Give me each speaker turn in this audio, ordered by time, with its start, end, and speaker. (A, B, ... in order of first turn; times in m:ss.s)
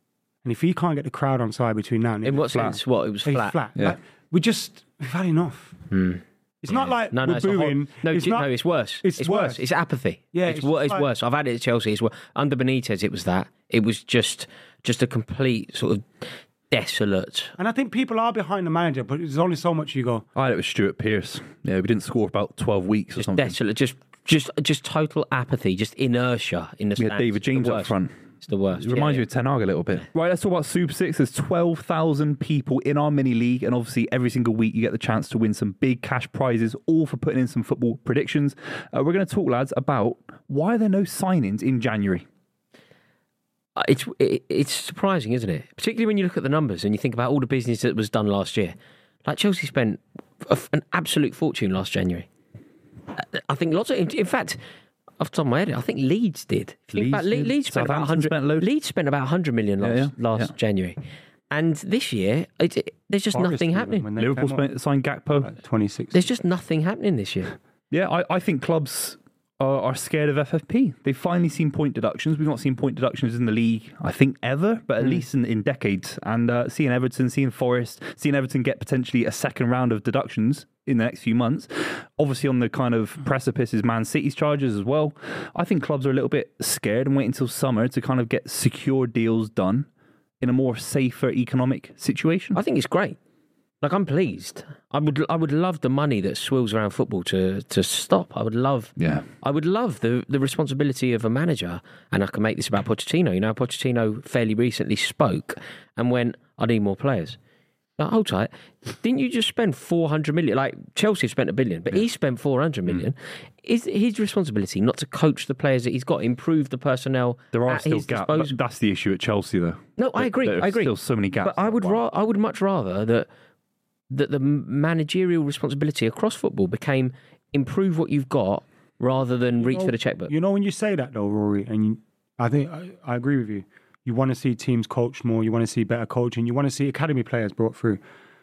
0:00.4-0:05.8 A
0:02.2-0:03.6 B
0:02.5-0:02.8 C
0:05.9-0:17.6 B
0:06.6-0:08.5 A
0:09.0-0:09.6 A
0:10.3-0:11.1 A
0:17.6-0:20.2 A
0:20.4-0:23.6 C
0:23.2-0:29.2 B
0:27.0-0:28.1 C
0:28.8-0:42.2 C
0:43.8-0:52.3 B
0:53.2-0:54.6 B
0:55.2-1:01.0 B
0:56.9-0:58.7 C
0:59.8-1:00.5 C
1:01.5-1:04.1 B
1:03.3-1:04.6 A
1:04.2-1:05.5 C
1:05.4-1:06.2 A
1:06.1-1:07.6 B
1:07.9-1:29.9 C
1:30.4-1:32.6 C
1:32.5-1:33.2 B
1:33.8-1:47.4 B
1:39.0-1:39.3 C
1:48.0-1:58.6 B
1:57.5-2:02.0 C
2:00.0-2:03.3 B
2:04.1-2:10.3 B
2:09.6-2:18.0 A